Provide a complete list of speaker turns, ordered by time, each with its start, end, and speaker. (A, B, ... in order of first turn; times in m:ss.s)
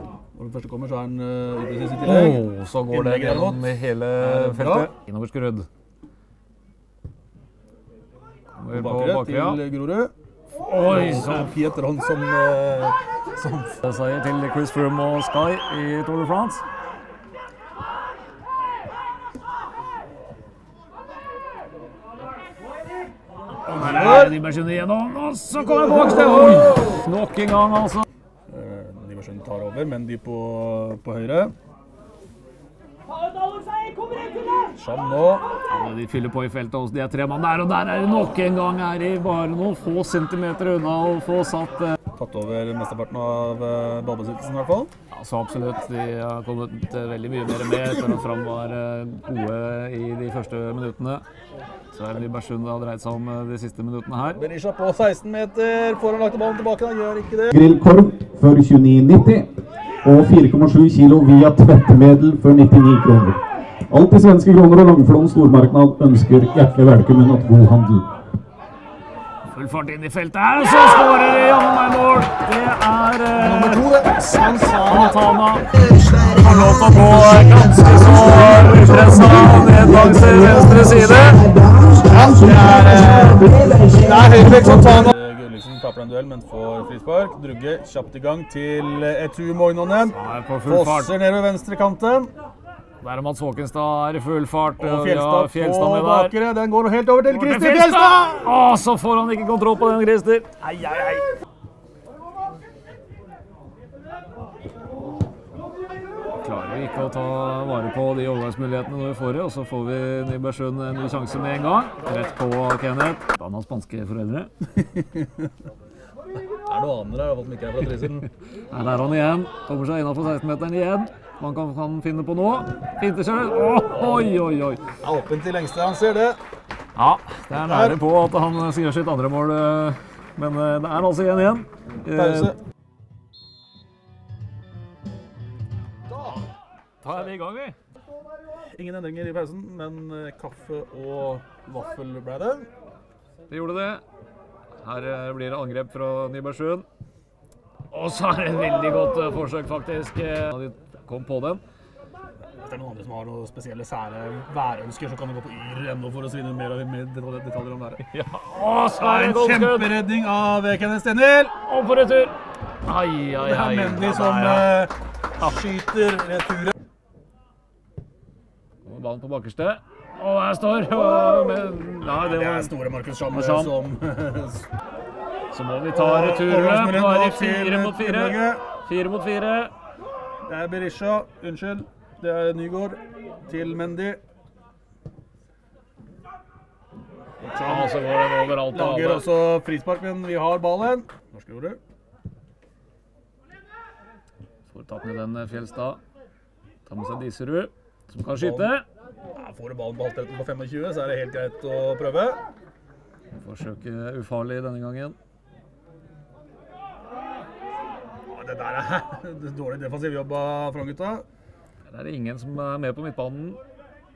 0:00.3-0:04.9 A
0:02.0-0:05.7 B
0:08.5-0:09.6 B
0:08.7-0:10.1 A
0:10.5-0:11.5 B
0:10.8-0:13.8 A
0:13.8-0:16.6 B
0:23.6-0:28.0 B
0:23.7-0:24.4 A
0:25.6-0:26.8 A
0:28.5-0:31.5 A
0:34.8-0:35.4 A
0:35.7-0:41.9 B
0:42.2-0:44.9 A
0:45.1-0:51.2 B
0:51.9-0:54.4 B
0:54.4-0:57.5 A
0:57.5-0:59.5 C
1:00.0-1:08.0 C
1:09.5-1:13.8 B
1:13.4-1:15.2 A
1:14.8-1:21.5 B
1:22.0-1:30.2 A
1:30.1-1:31.1 B
1:30.7-1:32.3 A
1:33.0-1:36.3 B
1:34.8-1:38.5 A
1:37.4-1:41.3 B
1:46.4-1:54.5 B
1:54.7-1:55.5 A
1:56.6-1:58.3 A
1:58.7-2:04.8 B
2:04.0-2:04.3 A
2:05.0-2:06.4 A
2:07.0-2:12.5 B
2:07.6-2:08.0 A
2:12.1-2:12.6 A
2:17.0-2:17.8 B
2:18.7-2:22.7 A
2:23.5-2:24.0 B
2:24.8-2:26.8 B
2:27.9-2:31.6 B
2:32.6-2:38.0 A
2:38.0-2:39.9 B
2:39.0-2:41.5 A
2:41.6-2:44.8 B
2:43.4-2:46.8 A
2:48.8-2:52.7 B
2:52.1-2:54.7 A
2:53.3-2:53.7 B
2:55.5-2:59.7 B
2:55.9-2:58.6 A
3:00.5-3:04.2 A
3:07.4-3:09.3 B
3:07.5-3:08.0 A
3:08.7-3:11.8 A
3:14.7-3:16.0 B
3:16.8-3:18.8 B
3:18.3-3:18.7 A
3:19.3-3:22.4 A
3:23.4-3:25.2 B
3:28.3-3:31.2 A
3:31.9-3:33.6 B